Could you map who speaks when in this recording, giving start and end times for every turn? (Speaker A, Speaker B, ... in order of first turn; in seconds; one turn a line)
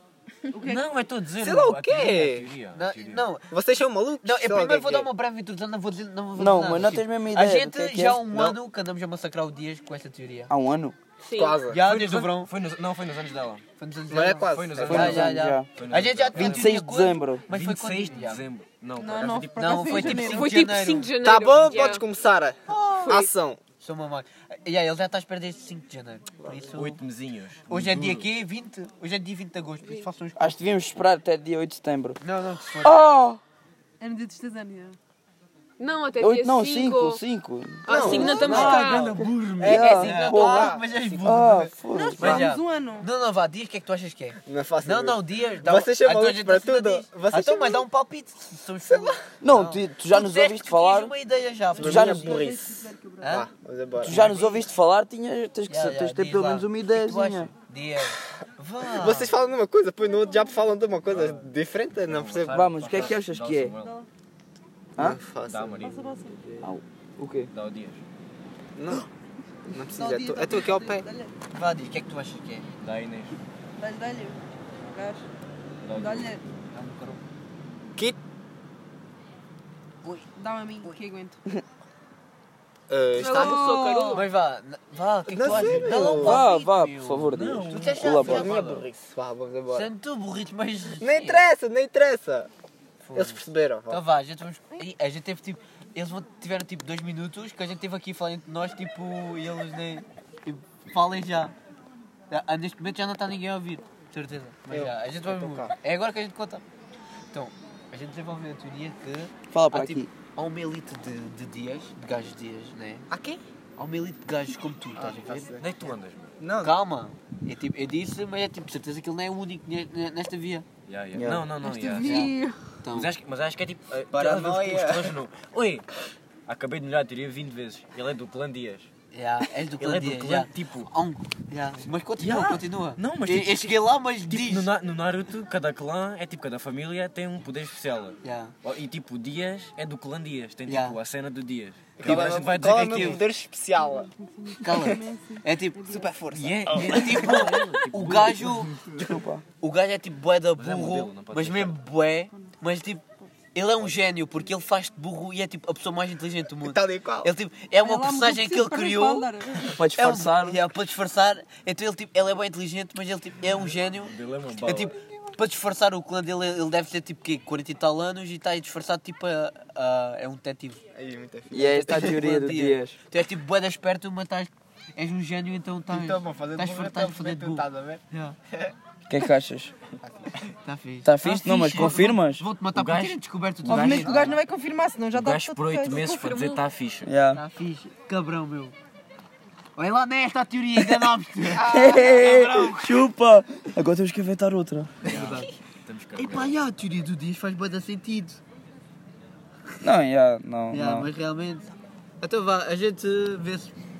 Speaker A: 0.5-0.9
Speaker B: 0.6-3.2
Speaker C: 1.4-2.5
Speaker D: 2.7-3.5
Speaker C: 3.5-5.1
Speaker D: 4.2-10.5
Speaker E: 6.3-8.5
Speaker E: 10.5-10.9
Speaker F: 11.2-11.6
Speaker C: 11.3-11.8
Speaker D: 11.7-12.5
Speaker B: 11.8-13.6
Speaker D: 13.8-18.4
Speaker C: 14.1-15.1
Speaker B: 14.5-16.8
Speaker E: 14.8-15.7
Speaker E: 16.3-17.4
Speaker B: 17.5-20.4
Speaker A: 18.9-20.6
Speaker D: 19.6-21.1
Speaker F: 20.2-22.0
Speaker C: 21.2-23.6
Speaker D: 22.8-23.1
Speaker F: 22.9-23.3
Speaker D: 23.8-27.0
Speaker B: 26.7-28.2
Speaker D: 27.7-30.6
Speaker E: 30.4-32.2
Speaker D: 32.2-33.0
Speaker E: 32.8-33.4
Speaker A: 34.0-35.0
Speaker F: 35.8-37.2
Speaker E: 36.2-38.2
Speaker F: 37.8-40.4
Speaker C: 37.9-41.2
Speaker D: 37.9-38.9
Speaker B: 38.0-40.0
Speaker A: 38.2-38.5
Speaker E: 39.6-42.5
Speaker D: 39.8-52.4
Speaker A: 41.9-43.1
Speaker C: 44.5-47.9
Speaker C: 48.9-49.2
Speaker E: 49.4-51.1
Speaker A: 51.7-53.4
Speaker C: 51.8-52.4
Speaker E: 51.8-52.6
Speaker D: 53.2-54.7
Speaker C: 53.3-54.3
Speaker E: 54.0-57.5
Speaker D: 55.7-59.4
Speaker C: 58.9-63.1
Speaker B: 61.1-61.5
Speaker B: 62.0-64.0
Speaker E: 62.5-63.7
Speaker A: 63.6-64.0
Speaker C: 65.0-65.9
Speaker B: 65.5-66.4
Speaker A: 65.7-66.4
Speaker E: 66.6-67.5
Speaker B: 67.5-68.0
Speaker C: 68.8-69.0
Speaker C: 69.7-71.1
Speaker A: 69.9-71.3
Speaker D: 71.5-72.7
Speaker B: 72.8-73.3
Speaker A: 73.8-75.2
Speaker B: 75.8-76.3
Speaker A: 75.9-76.4
Speaker D: 76.7-77.2
Speaker A: 80.0-81.4
Speaker C: 82.9-84.1
Speaker A: 83.2-84.2
Speaker D: 83.5-88.6
Speaker C: 85.3-86.5
Speaker E: 86.0-88.8
Speaker B: 87.3-87.9
Speaker C: 88.1-89.9
Speaker D: 89.7-91.4
Speaker C: 91.0-92.5
Speaker D: 93.0-101.5
Speaker C: 93.1-94.0
Speaker D: 102.3-106.6
Speaker C: 104.7-105.7
Speaker D: 107.3-113.0
Speaker E: 109.5-110.1
Speaker C: 113.1-113.4
Speaker D: 113.8-115.6
Speaker C: 114.9-115.7
Speaker B: 115.5-116.3
Speaker C: 116.4-116.8
Speaker D: 116.6-120.7
Speaker B: 120.9-122.3
Speaker E: 121.1-121.4
Speaker A: 121.6-122.6
Speaker D: 122.0-123.1
Speaker B: 122.9-125.9
Speaker C: 124.1-125.1
Speaker B: 126.5-128.9
Speaker D: 129.1-134.7
Speaker B: 129.8-130.9
Speaker B: 132.2-133.7
Speaker B: 134.3-143.2
Speaker D: 138.2-138.5
Speaker D: 140.7-141.0
Speaker C: 142.0-144.1
Speaker A: 143.8-146.1
Speaker D: 144.6-145.8
Speaker C: 145.8-146.8
Speaker B: 146.3-148.6
Speaker D: 146.6-148.8
Speaker E: 148.9-149.4
Speaker D: 149.6-153.0
Speaker B: 150.6-151.8
Speaker D: 153.5-170.8
Speaker C: 156.6-157.3
Speaker A: 157.8-159.7
Speaker E: 159.6-160.6
Speaker B: 164.0-164.9
Speaker C: 170.9-172.1
Speaker E: 171.5-173.0
Speaker D: 171.7-178.4
Speaker C: 175.9-178.0
Speaker E: 179.1-179.7
Speaker C: 180.0-180.3
Speaker D: 180.6-184.4
Speaker E: 181.0-182.4
Speaker B: 182.7-184.3
Speaker E: 183.7-184.3
Speaker A: 183.7-186.6
Speaker B: 185.1-187.1
Speaker E: 187.0-187.4
Speaker D: 187.3-188.7
Speaker D: 189.8-192.8
Speaker C: 191.5-192.7
Speaker E: 191.6-194.9
Speaker D: 195.0-195.5
Speaker B: 195.0-196.6
Speaker D: 196.2-198.4
Speaker E: 199.8-201.1
Speaker D: 200.7-201.7
Speaker D: 202.2-203.7